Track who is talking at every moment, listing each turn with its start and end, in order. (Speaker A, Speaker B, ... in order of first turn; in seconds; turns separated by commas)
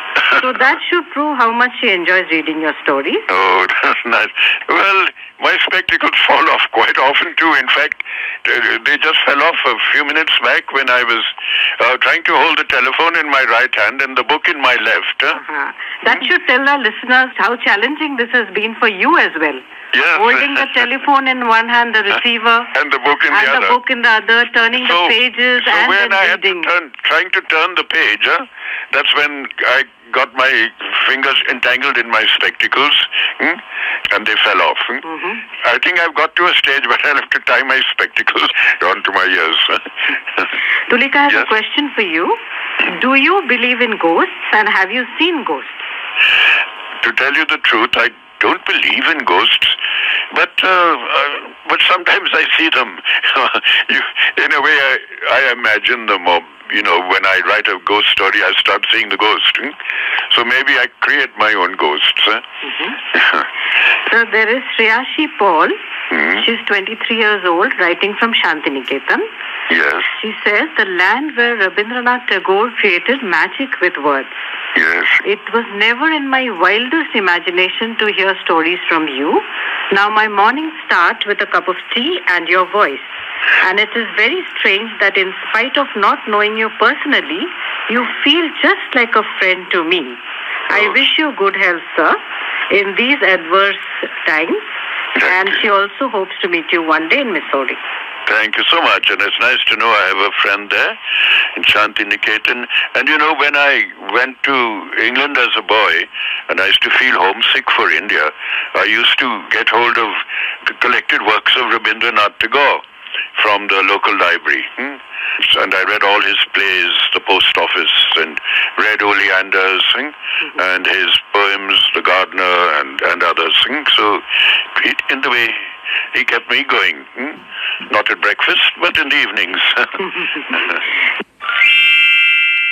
Speaker A: 0.3-3.2, Speaker B: 3.3-15.4, Speaker A: 15.3-22.7, Speaker B: 19.9-20.7, Speaker B: 22.7-23.8, Speaker A: 23.3-26.7, Speaker B: 24.7-35.0, Speaker A: 35.1-35.4, Speaker B: 35.6-39.8, Speaker A: 40.9-45.8, Speaker B: 47.0-49.8, Speaker B: 50.3-59.8, Speaker B: 60.3-62.4, Speaker A: 62.6-63.0, Speaker B: 63.1-63.4, Speaker A: 64.1-65.8, Speaker B: 66.1-66.4, Speaker A: 66.3-69.3, Speaker B: 69.7-70.1, Speaker A: 70.2-74.3, Speaker B: 74.8-75.2, Speaker A: 75.2-94.7, Speaker B: 95.2-95.5, Speaker A: 95.2-97.8, Speaker B: 98.3-101.0, Speaker B: 101.5-112.8, Speaker B: 113.4-130.8